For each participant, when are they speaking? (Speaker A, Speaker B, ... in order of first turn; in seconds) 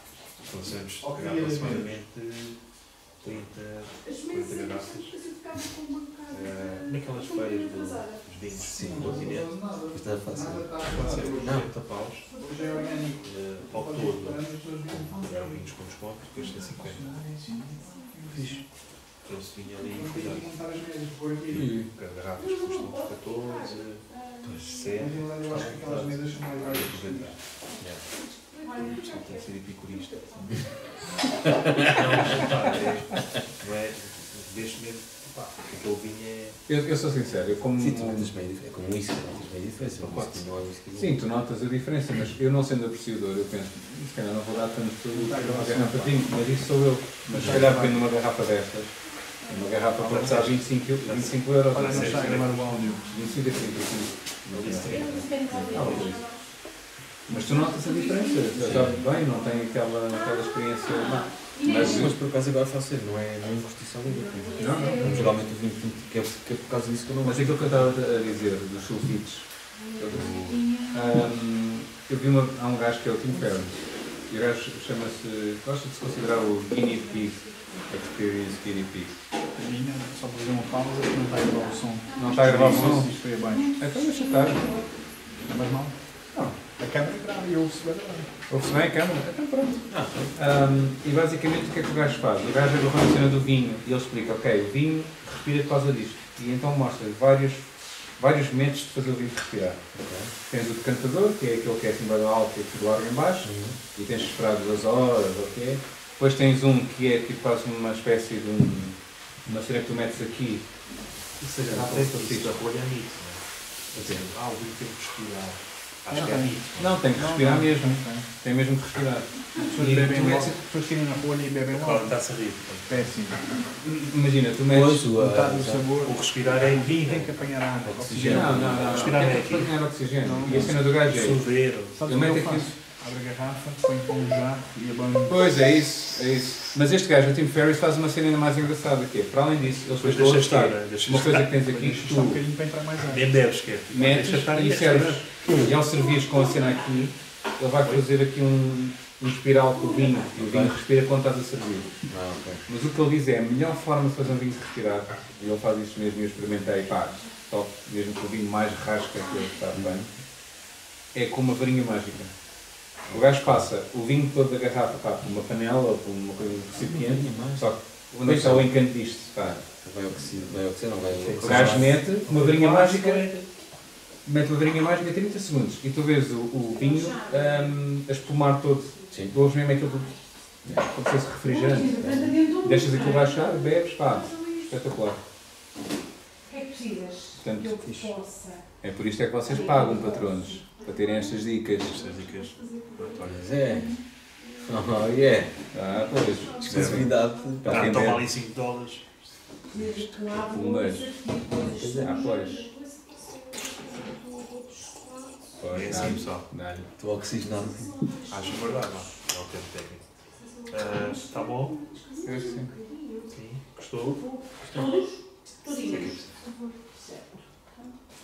Speaker A: 0.4-2.5, 3.2-5.1, 6.3-9.5, 10.9-12.2, 13.2-17.1, 19.2-20.5, 21.9-28.0, 28.7-30.4, 31.7-36.6, 40.0-40.5, 50.0-52.5, 54.5-56.2, 111.4-117.0, 121.7-123.0, 126.0-127.3, 128.8-129.7, 130.6-132.0, 140.0-141.5, 143.1-145.2, 171.2-173.4, 191.9-193.4, 196.7-197.1, 197.7-199.1, 205.7-206.4, 208.3-210.1, 210.7-211.8, 213.3-214.2, 215.7-216.4
Speaker B: 1.0-1.9, 8.8-11.6, 12.4-15.7, 16.4-18.6, 19.8-21.7, 25.0-27.3, 45.1-46.2, 47.3-48.1, 51.7-53.1, 79.5-83.7, 85.5-85.9, 86.8-88.3, 116.1-116.6, 117.1-118.2, 119.6-122.2, 122.9-123.5, 125.1-128.9, 130.2-130.8, 131.9-135.5, 141.6-143.3
Speaker C: 4.0-8.3, 12.3-13.1, 17.8-18.1, 22.4-24.9, 28.1-30.7, 49.4-49.8, 54.7-56.4, 57.3-62.1, 64.1-65.3, 69.8-71.3, 76.8-77.8, 81.5-82.9, 83.5-84.9, 146.0-146.9, 149.8-150.3, 176.8-177.8, 179.7-180.2, 181.4-184.7, 186.4-188.6, 189.4-195.0, 196.1-197.7, 199.7-206.2, 207.7-209.1, 210.3-213.3, 214.2-217.9
Speaker D: 8.5-9.3, 9.9-11.7, 31.4-32.3, 37.8-41.2, 55.5-55.7, 58.6-59.0, 61.6-67.8, 70.0-70.6, 89.9-90.3, 99.9-100.3, 103.4-103.8, 124.7-125.9, 127.8-129.2, 150.3-150.8, 152.1-152.6, 159.7-160.1, 166.7-168.7, 169.8-172.0, 179.1-179.3, 180.6-180.9, 182.0-182.4, 187.8-188.1, 193.2-194.0, 194.6-195.5, 196.6-198.0, 201.6-202.1, 207.0-208.1
Speaker E: 21.5-21.9, 32.6-32.9, 36.7-38.3, 40.9-48.9, 49.4-56.3, 57.3-62.1, 64.5-65.4, 67.2-73.7, 74.3-79.1, 82.2-83.2, 83.8-84.7, 88.5-99.8, 100.5-110.6, 111.7-112.6, 113.9-114.3, 116.8-120.6, 123.8-125.1, 128.2-131.4, 132.0-132.7, 135.3-142.4, 143.9-151.9, 152.7-160.1, 161.1-162.3, 163.1-169.6, 171.4-173.3, 174.2-180.1, 180.8-185.2, 187.4-187.8, 188.8-192.0, 195.7-197.1, 197.6-198.3, 199.8-201.1, 201.8-202.7, 205.6-206.9, 212.2-212.7